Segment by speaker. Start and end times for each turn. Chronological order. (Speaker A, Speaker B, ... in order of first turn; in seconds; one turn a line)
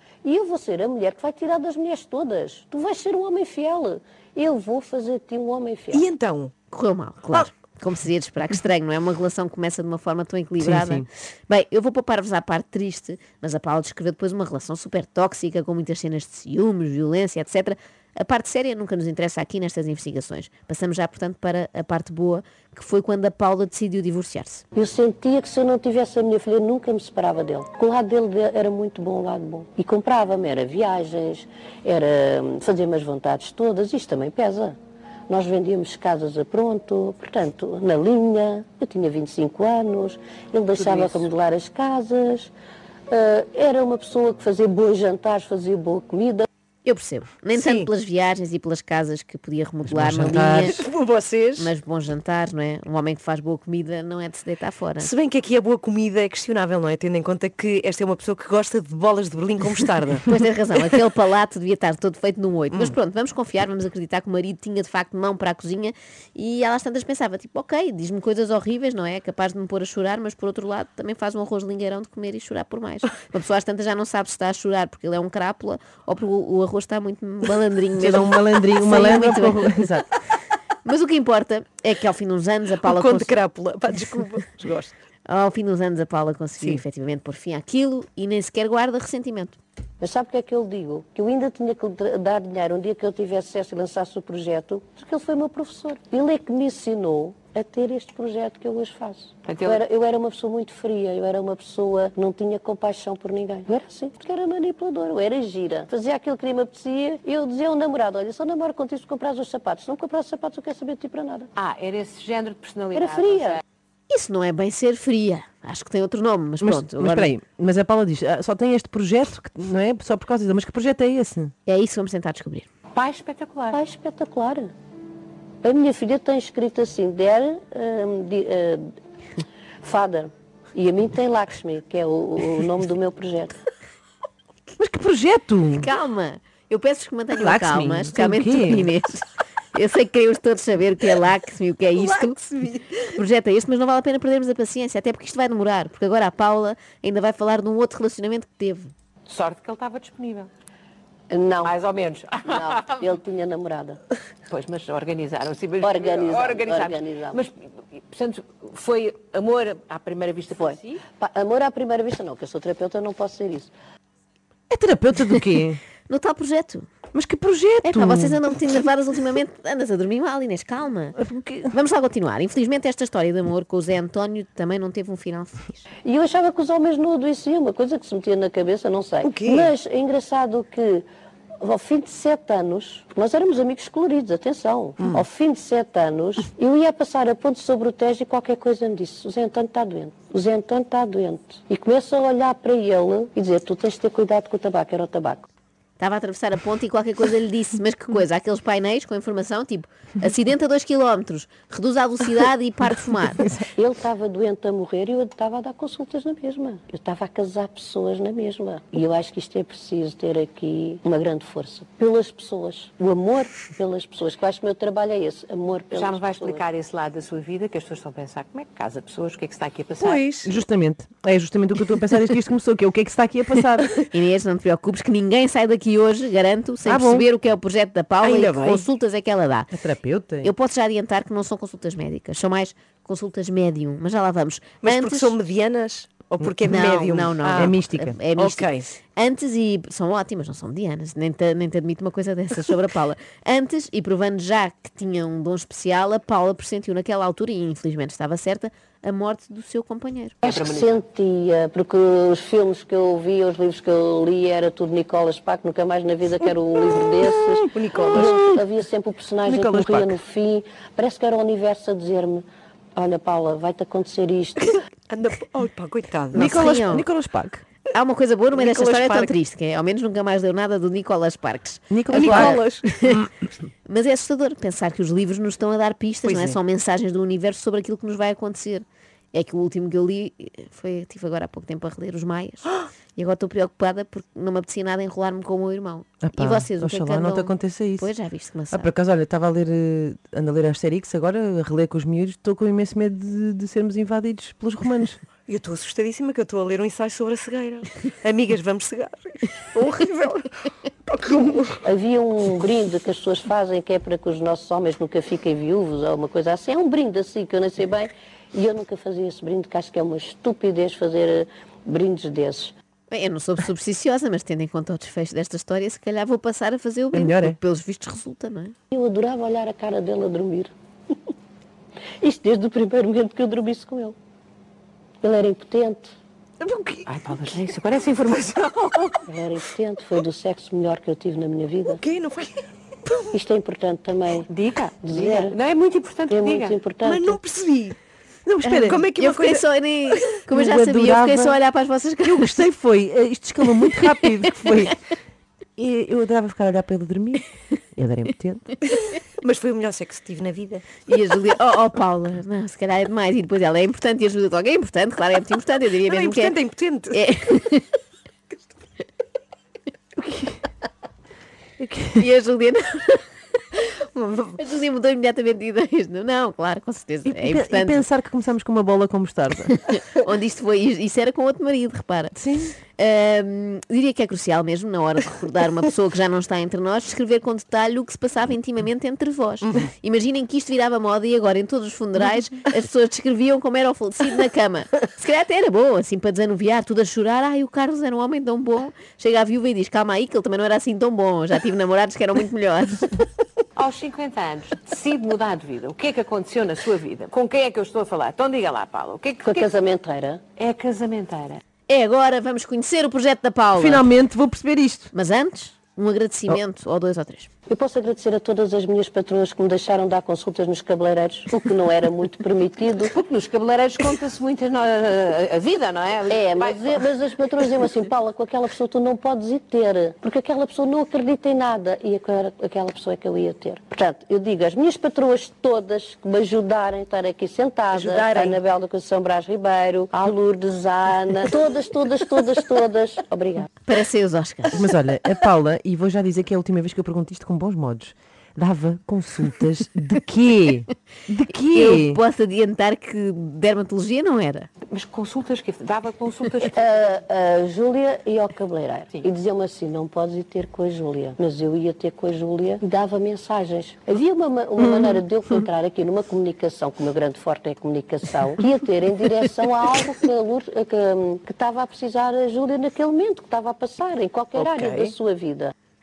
Speaker A: 0.2-6.0
Speaker B: 5.9-6.5
Speaker C: 6.7-24.6
Speaker D: 10.6-11.1
Speaker A: 24.7-34.8
Speaker A: 35.3-42.5
Speaker B: 40.8-41.2
Speaker A: 43.1-46.5
Speaker C: 46.8-50.8
Speaker B: 47.5-47.9
Speaker D: 49.9-50.8
Speaker B: 50.3-51.7
Speaker C: 51.6-55.1
Speaker B: 55.0-61.0
Speaker C: 60.3-79.9
Speaker D: 78.0-80.1
Speaker C: 80.8-83.3
Speaker B: 82.8-84.9
Speaker C: 85.2-89.6
Speaker A: 90.0-111.5
Speaker E: 99.5-99.8
Speaker E: 111.5-113.6
Speaker A: 112.9-113.6
Speaker C: 114.1-117.3
Speaker D: 116.6-121.5
Speaker C: 121.6-122.7
Speaker E: 122.9-123.8
Speaker A: 123.7-124.7
Speaker A: 125.6-128.8
Speaker A: 129.8-133.6
Speaker D: 134.8-135.9
Speaker C: 135.7-142.4
Speaker D: 137.3-138.9
Speaker B: 141.9-143.1
Speaker C: 143.1-148.9
Speaker E: 149.2-150.5
Speaker A: 151.3-151.8
Speaker E: 151.6-152.9
Speaker A: 152.4-154.0
Speaker E: 154.5-161.0
Speaker A: 155.8-157.5
Speaker A: 160.6-163.7
Speaker D: 164.7-165.8
Speaker C: 166.1-166.9
Speaker D: 167.1-168.4
Speaker C: 167.8-171.2
Speaker D: 171.2-171.7
Speaker C: 171.7-175.8
Speaker A: 176.0-181.1
Speaker B: 179.2-179.7
Speaker A: 181.6-195.4
Speaker C: 196.0-203.5
Speaker A: 203.8-216.6
Speaker E: 215.9-220.2
Speaker B: 220.0-220.5
Speaker D: 220.4-224.0
Speaker C: 223.9-229.7
Speaker D: 226.8-227.3
Speaker B: 228.2-228.8
Speaker D: 229.7-230.5
Speaker C: 230.4-235.3
Speaker B: 234.8-237.8
Speaker C: 236.7-250.4
Speaker D: 237.5-238.2
Speaker B: 238.3-238.9
Speaker A: 250.4-262.4
Speaker E: 250.5-250.9
Speaker B: 257.7-258.4
Speaker D: 259.4-260.1
Speaker A: 262.9-264.8
Speaker B: 264.6-266.5
Speaker C: 266.3-267.1
Speaker D: 266.3-267.6
Speaker C: 267.9-273.3
Speaker B: 268.5-269.4
Speaker D: 271.9-272.6
Speaker B: 272.1-272.9
Speaker C: 273.8-288.9
Speaker B: 276.2-276.6
Speaker D: 286.2-288.1
Speaker D: 288.7-295.2
Speaker B: 295.5-301.8
Speaker A: 301.8-312.7
Speaker C: 313.1-318.7
Speaker D: 317.1-317.6
Speaker A: 318.9-320.7
Speaker A: 322.2-324.1
Speaker A: 325.2-326.1
Speaker B: 326.6-327.1
Speaker E: 327.1-329.1
Speaker A: 329.2-332.0
Speaker B: 331.9-333.4
Speaker A: 333.3-334.5
Speaker E: 334.5-336.7
Speaker A: 335.0-335.6
Speaker A: 336.3-337.4
Speaker B: 337.0-338.0
Speaker D: 338.4-339.0
Speaker C: 338.6-342.6
Speaker B: 338.7-340.4
Speaker D: 340.5-341.6
Speaker D: 342.2-345.0
Speaker C: 343.9-344.9
Speaker D: 345.8-348.7
Speaker B: 348.9-350.9
Speaker C: 351.1-356.6
Speaker B: 356.0-357.3
Speaker C: 357.1-357.9
Speaker D: 360.2-360.6
Speaker D: 361.8-362.2
Speaker C: 362.1-368.1
Speaker D: 367.2-369.7
Speaker C: 369.7-372.4
Speaker D: 372.3-372.7
Speaker C: 372.9-393.2
Speaker E: 393.8-399.7
Speaker A: 399.4-400.4
Speaker E: 400.6-401.6
Speaker C: 401.9-404.1
Speaker D: 403.7-405.1
Speaker C: 405.1-407.5
Speaker A: 407.7-413.1
Speaker E: 413.1-417.0
Speaker A: 416.3-433.7
Speaker B: 427.9-428.6
Speaker C: 433.9-434.8
Speaker D: 434.7-442.2
Speaker C: 441.7-444.7
Speaker E: 444.9-446.7
Speaker A: 446.7-465.7
Speaker B: 464.6-465.1